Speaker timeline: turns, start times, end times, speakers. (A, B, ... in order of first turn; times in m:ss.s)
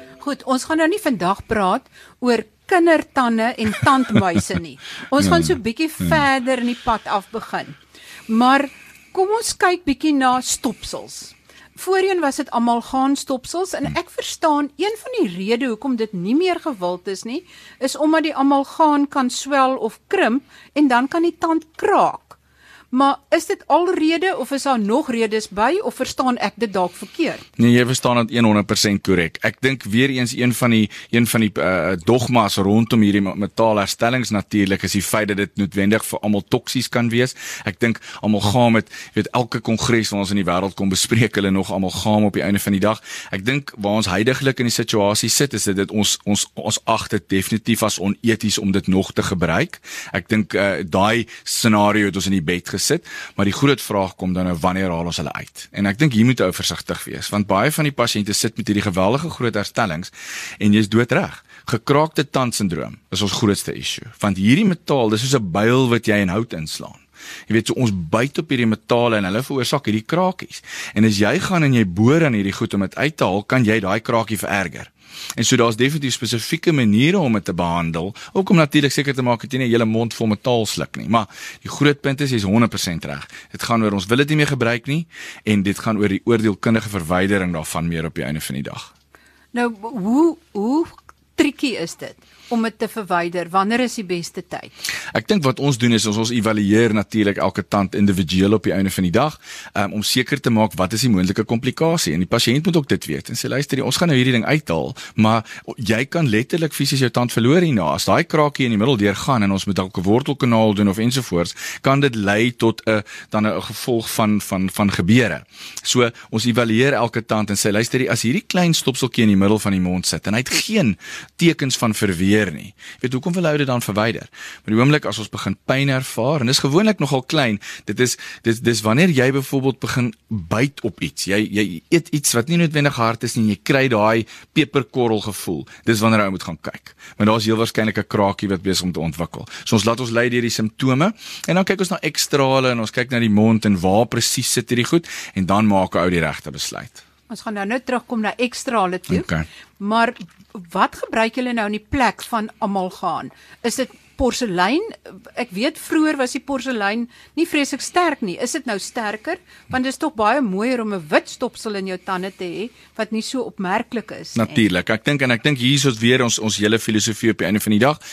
0:00.2-0:22.4 A
0:05.2-0:05.5 B
0:22.9-0:27.4 A
0:27.6-1:28.9 B
1:29.5-1:34.7 A
1:35.1-2:27.0 B
2:27.3-2:44.6 A
2:29.1-2:29.5 B
2:44.4-2:48.0 B